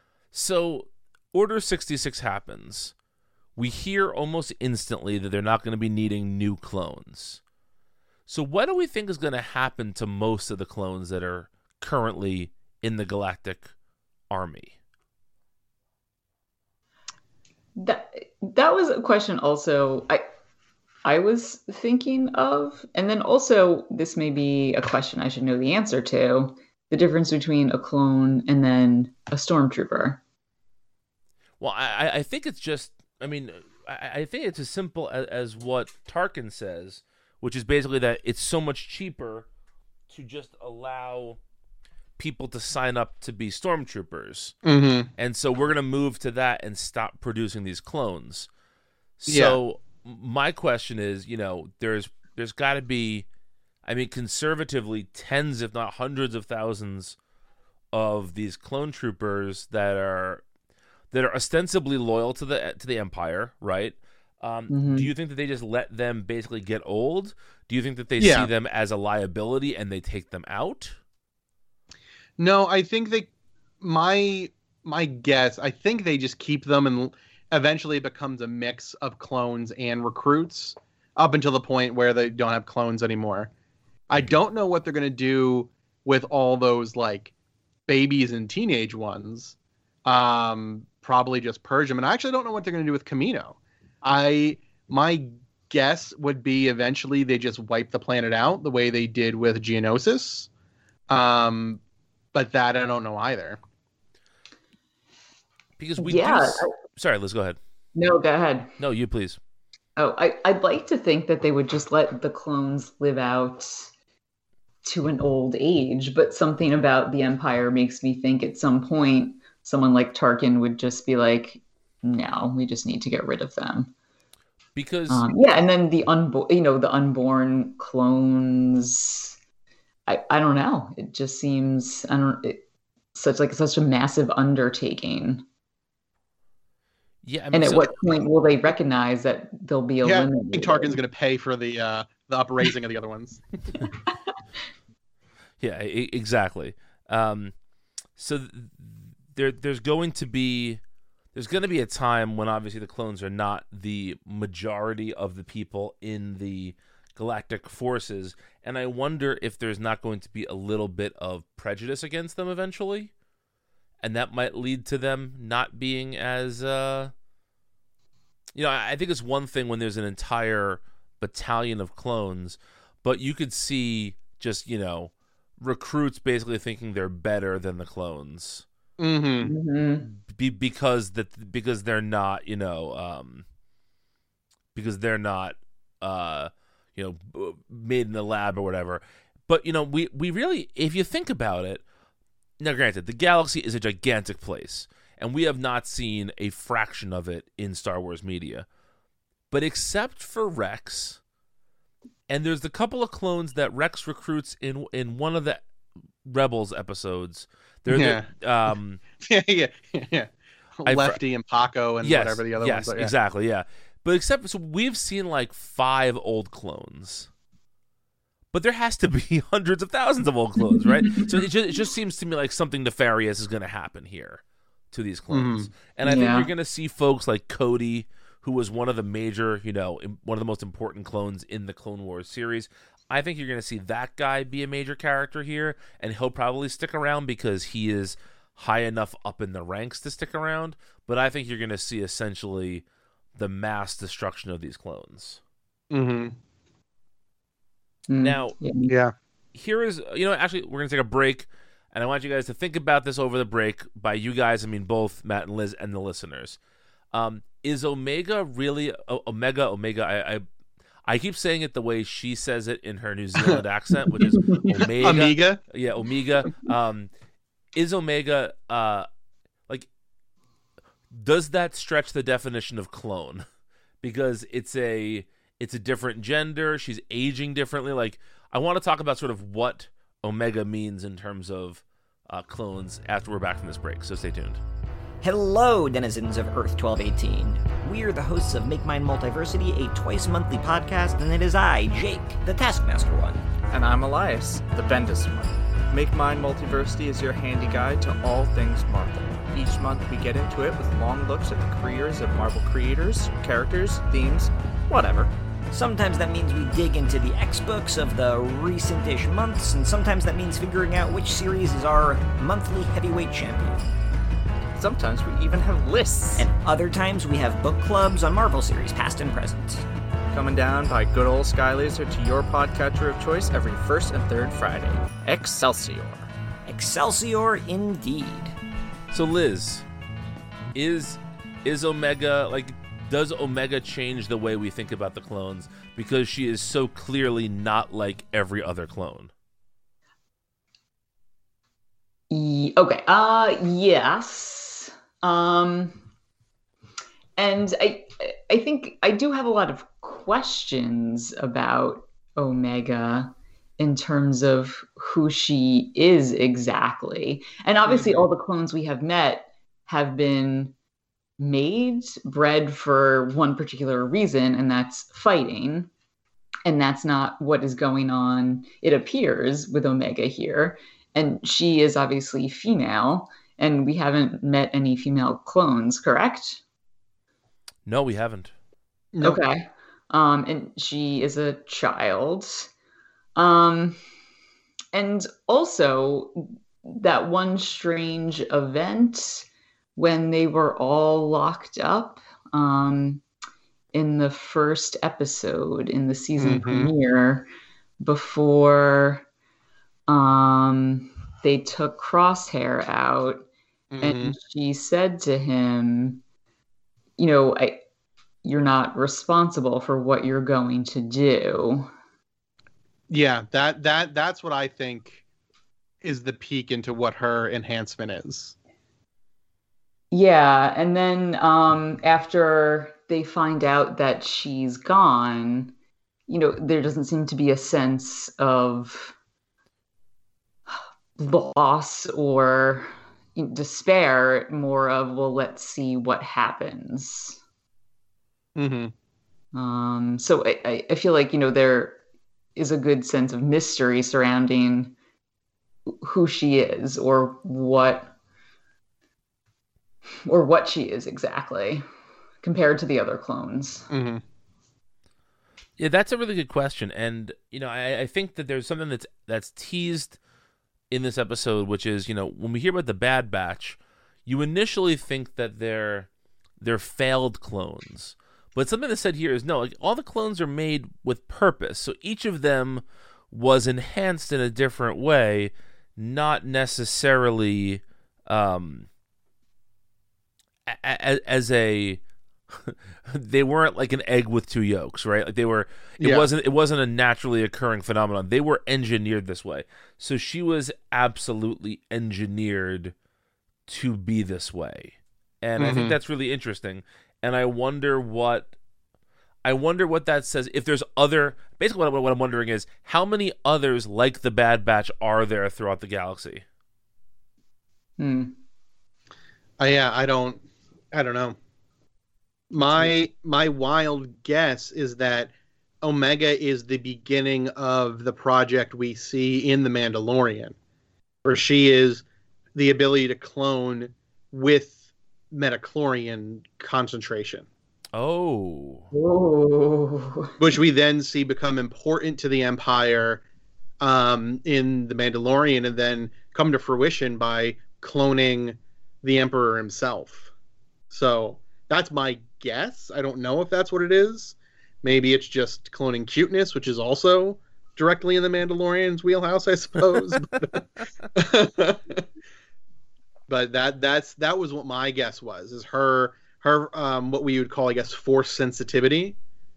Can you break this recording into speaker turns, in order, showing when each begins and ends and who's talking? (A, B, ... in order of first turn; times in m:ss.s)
0:00.3-0:02.9 A
0:03.6-0:07.4 A
0:08.3-0:13.7 A
0:14.3-0:14.7 A
0:17.8-0:20.2 B
0:21.0-0:30.2 B
0:31.6-0:39.5 A
0:40.1-0:41.4 A
0:42.2-0:44.5 A
0:44.6-0:45.1 C
0:45.2-0:48.5 A
0:49.2-0:53.2 A
0:49.3-0:49.6 C
0:53.8-0:57.2 A
0:57.9-1:00.4 A
1:01.1-1:11.0 A
1:04.7-1:05.1 B
1:08.2-1:08.5 C
1:12.4-1:13.3 C
1:13.8-1:23.5 C
1:24.1-1:27.3 C
1:27.9-1:40.5 C
1:41.1-1:41.8 C
1:42.3-1:43.6 C
1:45.8-1:47.6 A
1:46.0-1:46.7 B
1:47.9-1:48.7 B
1:48.8-1:49.4 A
1:50.0-1:53.9 B
1:54.8-2:03.9 B
2:04.8-2:05.2 A
2:05.1-2:09.4 B
2:10.1-2:12.6 B
2:13.1-2:15.4 B
2:17.2-2:18.2 A
2:17.5-2:21.0 B
2:20.0-2:23.4 C
2:25.6-2:27.5 A
2:28.2-2:30.8 A
2:31.3-2:43.1 A
2:44.0-2:47.1 A
2:48.5-2:58.6 A
2:59.0-2:59.5 C
2:59.4-3:00.1 B
3:00.0-3:03.4 A
3:04.7-3:11.8 A
3:12.6-3:18.6 A
3:19.5-3:21.2 A
3:22.3-3:25.6 A
3:26.2-3:29.0 A
3:27.9-3:28.3 C
3:29.2-3:33.1 C
3:30.8-3:31.2 A
3:32.0-3:37.3 A
3:38.5-4:02.8 A
3:40.8-3:41.2 B
3:45.3-3:45.7 C
3:46.0-3:46.5 B
4:03.4-4:05.4 A
4:05.9-4:06.4 C
4:08.1-4:08.9 B
4:08.2-4:08.6 A
4:08.9-4:09.1 C
4:09.5-4:16.6 A
4:17.1-4:20.4 A
4:21.1-4:27.1 A
4:24.3-4:24.8 B
4:25.0-4:25.6 C
4:27.7-4:29.1 A
4:31.1-4:33.4 A
4:34.0-4:44.6 A
4:45.2-4:53.4 D
4:53.7-5:05.3 E
5:05.7-5:13.8 D
5:14.7-5:16.5 E
5:16.4-5:19.8 D
5:20.3-5:26.3 E
5:26.6-5:28.5 D
5:29.1-5:29.8 A
5:30.7-5:39.3 A
5:42.3-5:46.0 B
5:47.4-6:00.7 B
5:57.8-5:58.3 C
6:01.4-6:05.9 B
6:06.6-6:16.6 B
6:17.8-6:18.5 A
6:19.1-6:19.4 C
6:19.2-6:22.7 B
6:23.4-6:24.0 B
6:24.9-6:33.2 B
6:33.9-6:37.5 B
6:36.4-6:36.9 C
6:38.0-6:39.2 B
6:40.1-6:43.5 B
6:43.9-6:44.4 C
6:44.0-6:46.2 B
6:47.2-6:47.8 B
6:48.4-6:51.9 B
6:53.1-6:55.2 C
6:56.0-6:58.5 C
7:00.1-7:05.7 B
7:06.3-7:09.1 B
7:10.7-7:17.4 B
7:18.6-7:18.9 C
7:19.5-7:22.0 B
7:22.6-7:24.9 B
7:25.9-7:28.1 B
7:30.2-7:31.8 B
7:32.4-7:33.9 B
7:33.9-7:34.2 C
7:35.8-7:40.2 A
7:40.9-7:46.1 A
7:46.6-7:58.9 A
8:00.7-8:02.0 A
8:02.5-8:12.9 A
8:06.0-8:06.3 C
8:13.7-8:18.5 A
8:15.6-8:16.0 C
8:19.4-8:26.4 A
8:28.0-8:28.4 B
8:29.6-8:31.4 C
8:32.5-8:40.5 C
8:41.2-8:42.0 C
8:42.5-8:44.8 C
8:45.3-8:47.4 C
8:48.0-8:48.9 A
8:48.9-8:50.3 B
8:50.4-8:53.2 C
8:53.8-9:00.3 C
9:00.9-9:10.6 C
9:11.1-9:12.0 C
9:13.3-9:19.2 C